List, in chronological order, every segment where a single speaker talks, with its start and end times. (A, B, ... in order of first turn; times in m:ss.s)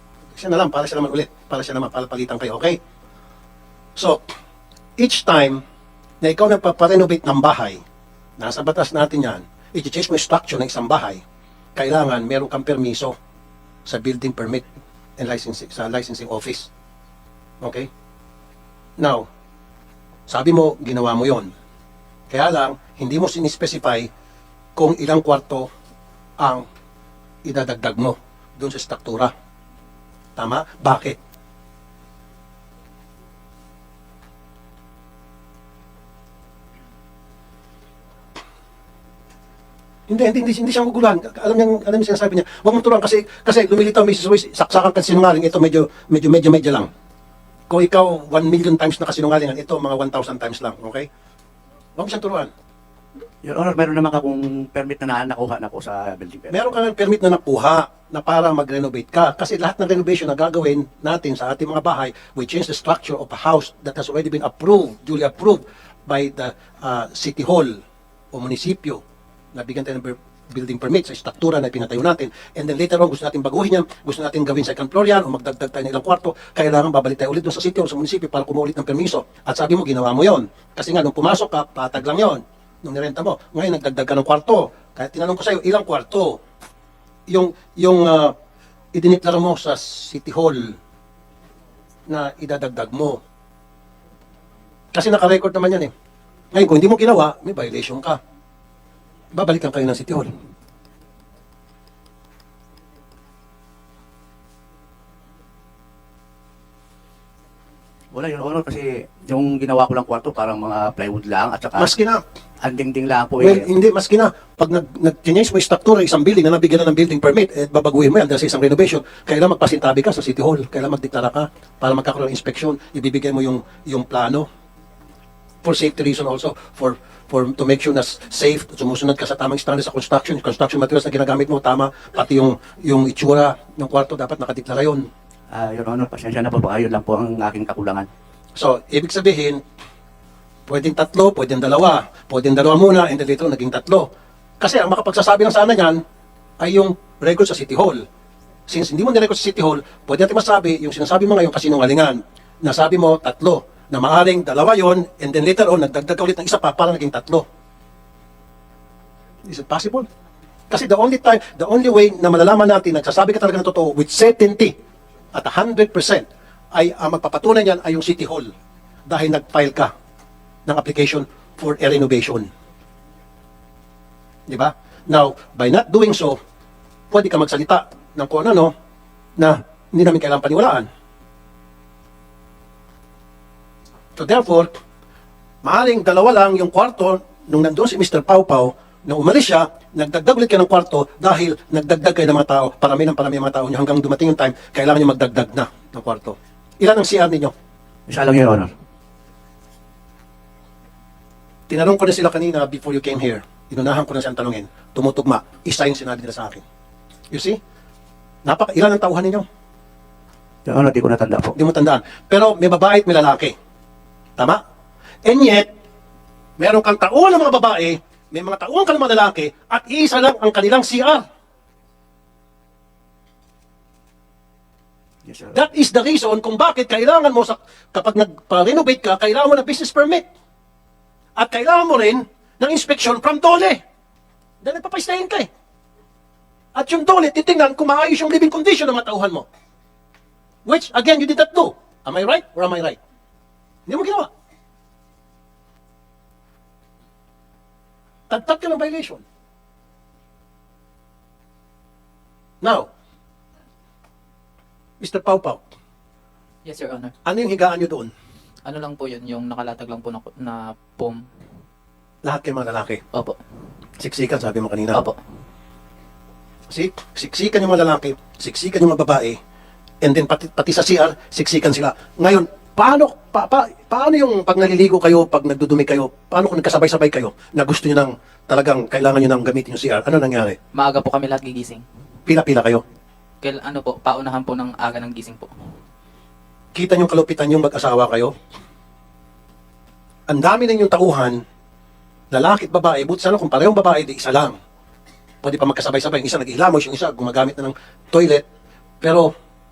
0:00.4-0:02.8 A
0:04.0-0:04.3 A
0:05.0-0:05.6 A
0:06.2-0:07.8 A
0:08.4-0:11.2 A
0:11.8-0:13.2 A
0:13.9-0:14.7 A
0:15.2-0:16.7 A
0:17.6-0:17.9 A
0:19.0-0:19.2 A
0:20.3-0:21.5 A
0:22.3-0:24.1 A
0:24.8-0:25.7 A
0:26.4-0:26.7 A
0:27.4-0:29.3 A
0:30.4-0:31.2 A
0:40.1-0:46.9 A
0:47.7-0:51.1 A
0:52.0-0:52.5 A
0:53.4-0:56.6 B
0:56.5-1:07.8 A
1:08.3-1:09.0 A
1:09.5-1:26.4 A
1:27.3-1:28.3 A
1:28.9-1:30.8 A
1:32.1-1:33.2 A
1:34.9-1:35.9 A
1:36.5-1:38.2 A
1:39.3-1:40.3 A
1:48.1-1:51.9 B
1:51.8-1:52.2 A
1:52.6-1:53.7 B
1:53.4-2:04.5 A
2:05.6-2:15.1 A
2:15.5-2:18.1 B
2:18.6-2:19.6 A
2:20.7-2:24.1 A
2:24.6-2:26.0 A
2:26.6-2:28.0 A
2:28.7-2:37.4 A
2:39.4-2:40.1 A
2:40.7-2:44.7 A
2:45.3-2:48.5 A
2:49.1-2:49.9 A
2:50.7-2:52.5 A
2:54.5-2:56.4 A
2:57.1-2:58.7 A
2:59.4-3:00.9 A
3:04.2-3:04.7 A
3:05.6-3:17.5 A
3:18.1-3:18.7 B
3:21.7-3:26.6 A
3:27.3-3:27.6 A
3:28.4-3:29.4 A
3:30.7-3:31.6 B
3:31.6-3:33.6 A
3:35.2-3:35.7 A
3:36.6-3:41.2 A
3:45.3-3:45.6 B
3:45.5-3:50.2 A
3:51.4-3:53.8 A
3:54.6-3:55.5 A
3:56.8-3:59.5 A
4:00.7-4:03.0 A
4:03.9-4:04.3 A
4:08.3-4:09.2 A
4:12.6-4:12.9 A
4:15.0-4:15.6 A
4:16.6-4:17.1 C
4:17.2-4:18.1 A
4:18.6-4:21.2 C
4:22.2-4:23.0 A
4:24.0-4:25.0 A
4:26.7-4:29.4 A
4:30.0-4:40.6 A
4:40.8-4:41.8 C
4:42.3-4:42.8 A
4:43.4-4:45.5 C
4:46.7-4:48.3 A
4:50.3-4:51.4 A
4:52.3-4:54.6 A
4:55.4-4:58.4 A
4:59.0-4:59.3 A